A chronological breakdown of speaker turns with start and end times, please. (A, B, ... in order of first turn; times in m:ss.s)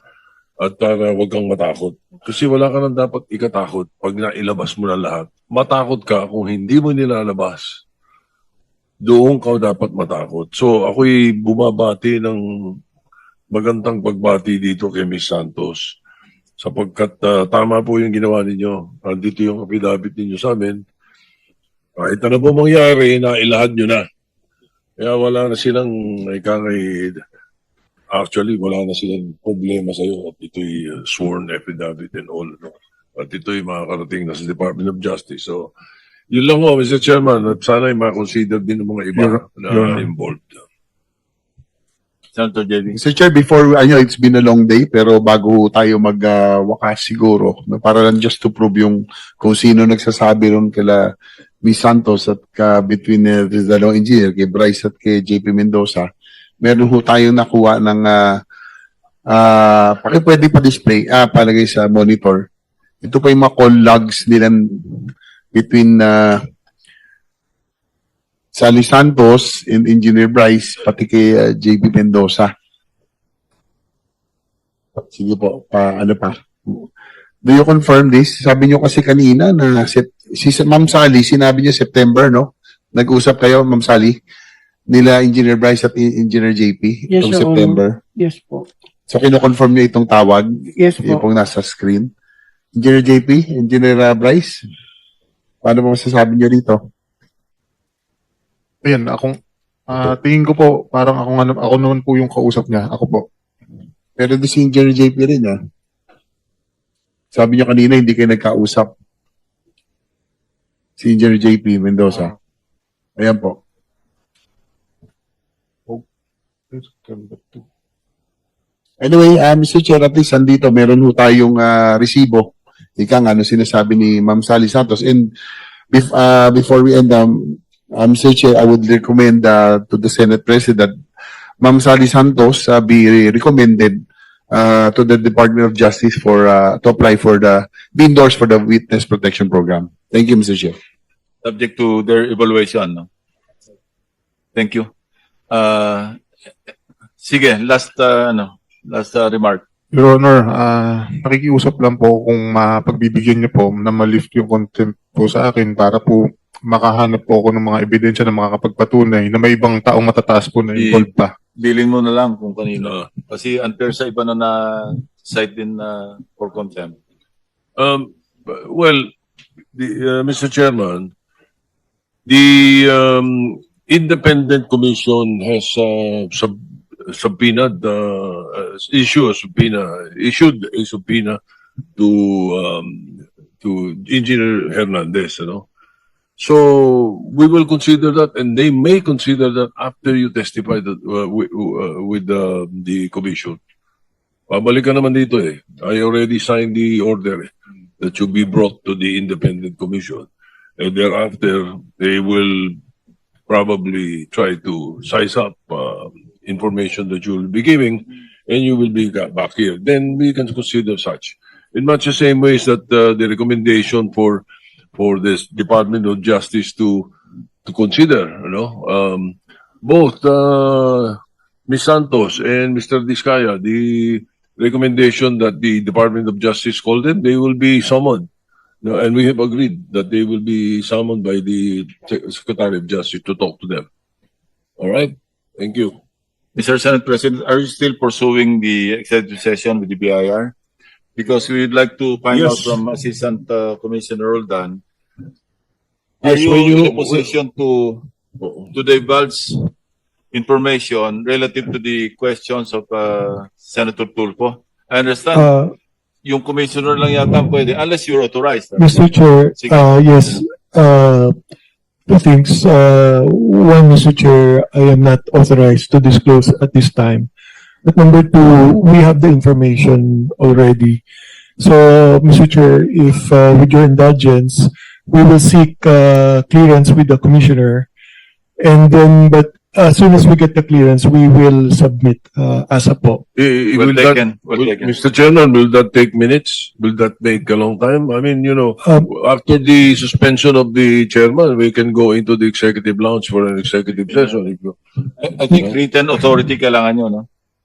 0:00.6-0:07.8 A
0:09.0-0:12.8 A
0:13.5-0:16.0 A
0:16.6-0:20.8 A
0:22.0-0:24.1 A
0:25.0-0:27.2 A
0:28.1-0:35.7 A
0:36.3-0:40.6 A
0:42.3-0:43.0 B
0:42.9-0:51.1 C
0:51.6-0:56.1 C
0:56.6-0:58.4 C
0:59.3-1:02.4 C
1:03.0-1:06.4 C
1:08.5-1:12.5 C
1:15.0-1:16.8 C
1:17.4-1:24.2 C
1:24.9-1:28.0 C
1:27.1-1:28.6 D
1:29.1-1:32.1 C
1:30.8-1:31.2 D
1:32.8-1:34.6 C
1:35.6-1:36.8 C
1:38.8-1:39.3 E
1:39.9-1:43.2 E
1:44.2-1:45.6 C
1:47.3-1:48.9 C
1:51.0-1:52.3 C
1:53.2-1:53.6 C
1:56.7-1:57.6 E
1:59.0-2:05.3 C
2:05.9-2:10.9 C
2:11.6-2:14.0 C
2:14.5-2:20.7 C
2:21.4-2:23.1 B
2:24.6-2:24.9 B
2:25.5-2:26.1 B
2:27.2-2:29.6 B
2:29.9-2:41.3 E
2:40.8-2:47.0 B
2:42.8-2:43.1 A
2:47.8-2:49.1 A
2:49.7-2:51.1 A
2:52.2-3:01.4 A
3:02.0-3:05.7 A
3:06.4-3:13.6 A
3:14.5-3:22.7 A
3:23.5-3:34.4 A
3:34.9-3:37.1 A
3:37.6-3:48.3 A
3:48.8-3:53.8 A
3:54.8-3:56.0 A
3:56.6-4:00.5 B
4:01.2-4:04.8 B
4:02.3-4:02.8 A
4:06.2-4:08.0 B
4:06.2-4:07.0 F
4:08.4-4:08.7 A
4:08.7-4:09.7 B
4:10.3-4:15.5 B
4:15.3-4:15.7 F
4:16.2-4:20.4 B
4:18.8-4:21.4 F
4:22.1-4:27.3 F
4:27.8-4:31.0 F
4:31.6-4:37.9 F
4:38.6-4:43.2 F
4:43.3-4:54.8 A
4:43.7-4:44.9 B
4:55.2-4:57.2 B